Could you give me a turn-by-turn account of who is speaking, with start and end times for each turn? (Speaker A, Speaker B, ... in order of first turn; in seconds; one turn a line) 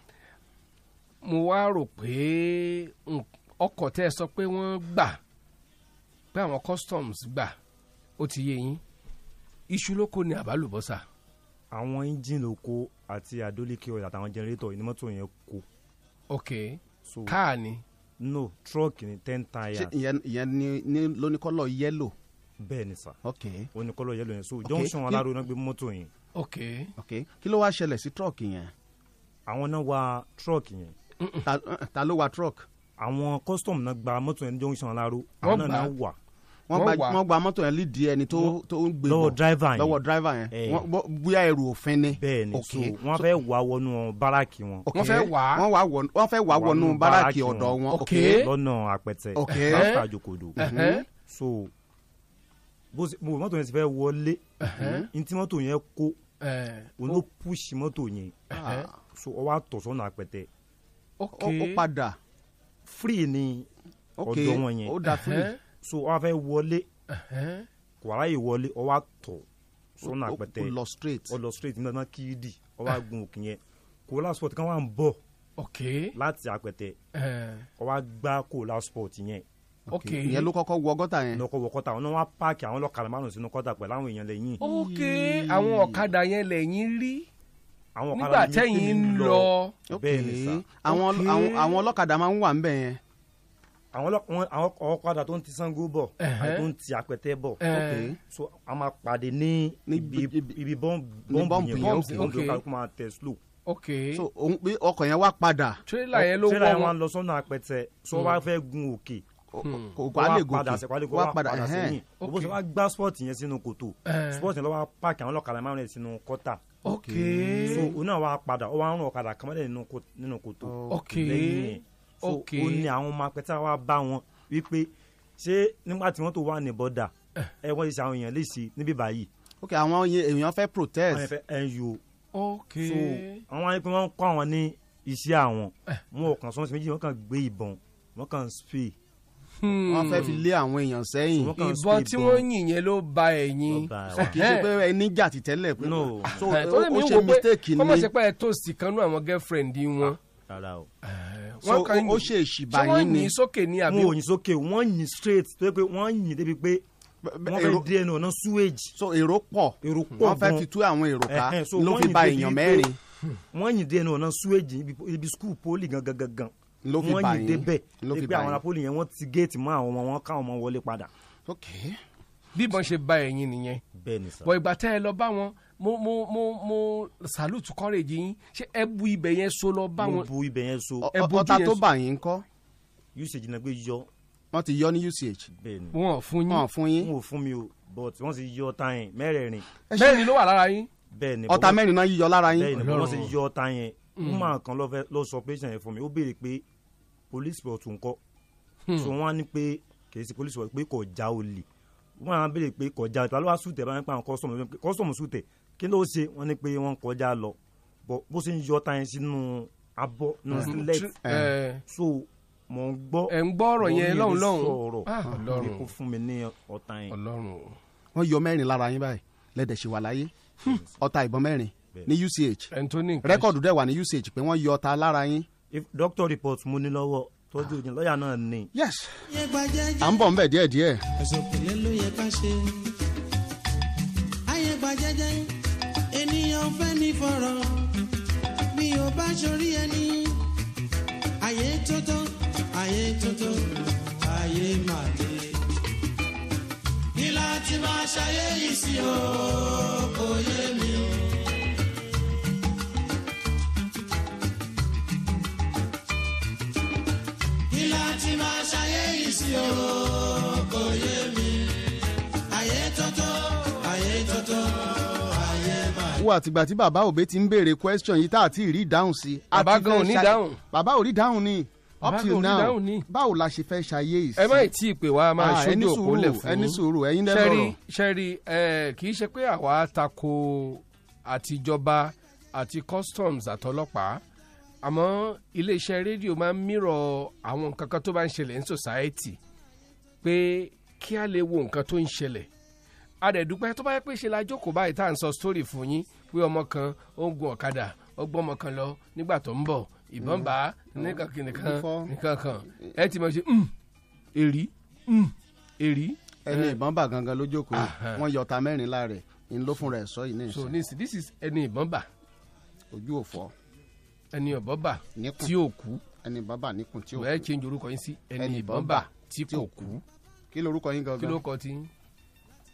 Speaker A: 1.2-5.2
Speaker A: 6.3-7.5
Speaker A: 8.2-8.8
Speaker A: 9.7-11.0
Speaker B: 11.7-15.7
Speaker A: 16.3-17.8
Speaker B: 17.1-17.4
Speaker B: 18.2-19.9
Speaker C: 19.7-22.1
Speaker B: 22.6-23.2
Speaker C: 23.2-23.7
Speaker B: 23.8-26.1
Speaker A: 24.7-25.1
Speaker A: 26.4-26.9
Speaker C: 27.0-28.7
Speaker B: 29.5-30.9
Speaker C: 31.4-32.6
Speaker B: 33.0-36.1
Speaker A: 35.4-35.9
Speaker C: 36.7-43.3
Speaker A: 36.7-37.2
Speaker B: 38.4-40.0
Speaker B: 40.5-40.9
Speaker B: 42.2-44.9
Speaker C: 44.9-48.5
Speaker A: 44.9-45.6
Speaker B: 46.5-47.8
Speaker A: 47.9-48.5
Speaker B: 48.3-50.6
Speaker C: 49.4-50.0
Speaker A: 49.5-50.0
Speaker C: 50.6-51.0
Speaker A: 50.6-51.0
Speaker B: 51.1-51.7
Speaker B: 52.9-54.5
Speaker A: 54.6-55.0
Speaker C: 54.6-55.1
Speaker B: 55.1-56.2
Speaker A: 56.4-57.2
Speaker B: 57.0-58.4
Speaker A: 58.5-58.9
Speaker C: 58.5-59.0
Speaker B: 59.0-60.5
Speaker A: 61.2-61.8
Speaker C: 61.4-62.2
Speaker B: 62.9-63.7
Speaker C: 64.2-65.5
Speaker B: 64.2-65.0
Speaker A: 65.1-65.6
Speaker B: 65.8-66.9
Speaker A: 67.1-67.7
Speaker B: 68.0-69.5
Speaker B: 70.0-70.7
Speaker C: 70.0-71.3
Speaker B: 71.3-75.2
Speaker A: 75.6-76.1
Speaker B: 76.2-77.0
Speaker A: 77.2-77.7
Speaker B: 77.8-79.4
Speaker C: 79.9-81.4
Speaker A: 79.9-80.5
Speaker B: 81.3-84.6
Speaker C: 84.6-86.1
Speaker A: 84.6-87.3
Speaker B: 88.0-90.6
Speaker A: 88.1-89.8
Speaker C: 89.9-93.0
Speaker A: 90.9-91.8
Speaker B: 93.9-97.6
Speaker A: 96.2-96.7
Speaker A: 97.6-98.1
Speaker C: 97.7-98.2
Speaker B: 98.3-103.4
Speaker C: 99.9-100.6
Speaker C: 101.3-102.4
Speaker A: 101.7-102.6
Speaker A: 103.7-104.2
Speaker C: 104.1-105.8
Speaker A: 105.9-106.9
Speaker B: 106.1-109.2
Speaker C: 109.5-112.0
Speaker A: 109.6-109.9
Speaker B: 110.1-116.6
Speaker A: 112.2-112.5
Speaker A: 114.1-114.5
Speaker A: 116.8-117.9
Speaker C: 116.9-117.9
Speaker B: 117.7-127.1
Speaker C: 120.6-121.7
Speaker A: 120.9-122.9
Speaker B: 127.6-129.3
Speaker C: 129.6-131.3
Speaker B: 131.1-132.0
Speaker A: 132.3-133.4
Speaker B: 132.8-138.9
Speaker A: 139.6-140.4
Speaker C: 139.9-141.6
Speaker B: 141.4-142.4
Speaker A: 141.6-144.7
Speaker B: 143.7-144.4
Speaker C: 144.2-148.1
Speaker B: 145.8-146.4
Speaker A: 146.4-150.2
Speaker B: 150.0-150.9
Speaker A: 151.1-154.2
Speaker C: 151.6-153.3
Speaker B: 153.9-156.8
Speaker C: 157.2-157.9
Speaker B: 157.5-158.9
Speaker C: 158.9-163.0
Speaker B: 159.8-160.7
Speaker B: 161.3-162.9
Speaker B: 163.5-171.1
Speaker C: 166.8-168.6
Speaker C: 171.5-172.0
Speaker A: 172.6-173.8
Speaker B: 174.0-174.5
Speaker A: 174.4-180.3
Speaker B: 180.0-181.1
Speaker C: 181.0-182.4
Speaker A: 181.1-181.8
Speaker B: 183.2-184.1
Speaker C: 184.5-185.5
Speaker B: 185.6-185.9
Speaker A: 185.9-186.7
Speaker C: 186.5-187.1
Speaker B: 187.0-189.7
Speaker C: 189.9-190.3
Speaker A: 190.0-190.9
Speaker B: 191.1-191.8
Speaker C: 191.5-192.9
Speaker B: 192.5-196.6
Speaker A: 192.7-193.3
Speaker A: 194.2-194.5
Speaker B: 197.3-198.2
Speaker B: 199.0-201.7
Speaker B: 202.2-211.1
Speaker C: 210.5-211.5
Speaker A: 210.6-211.8
Speaker B: 211.9-217.2
Speaker A: 213.3-215.9
Speaker C: 215.3-215.7
Speaker A: 217.1-217.8
Speaker C: 218.2-222.7
Speaker A: 222.7-223.5
Speaker C: 223.2-225.5
Speaker B: 225.7-228.7
Speaker C: 228.7-229.1
Speaker D: 229.3-230.2
Speaker C: 230.0-231.0
Speaker D: 231.2-232.8
Speaker D: 234.5-235.5
Speaker D: 236.1-237.9
Speaker D: 238.7-240.4
Speaker D: 241.4-245.6
Speaker D: 247.2-251.2
Speaker D: 257.7-261.7
Speaker D: 262.5-266.2
Speaker C: 266.2-274.7
Speaker A: 269.5-270.6
Speaker A: 272.0-273.1
Speaker A: 274.4-284.2
Speaker C: 275.4-277.8
Speaker A: 284.8-289.4
Speaker A: 290.2-292.5
Speaker A: 293.2-303.7
Speaker C: 300.2-302.1
Speaker C: 302.7-302.9
Speaker A: 304.4-306.8
Speaker C: 306.5-310.8
Speaker A: 307.7-308.2
Speaker A: 310.5-312.1
Speaker C: 312.9-313.5
Speaker A: 314.3-316.0
Speaker C: 315.1-315.5
Speaker C: 316.2-317.5
Speaker A: 317.2-320.0
Speaker C: 318.4-320.0
Speaker C: 320.5-321.4
Speaker A: 321.2-321.9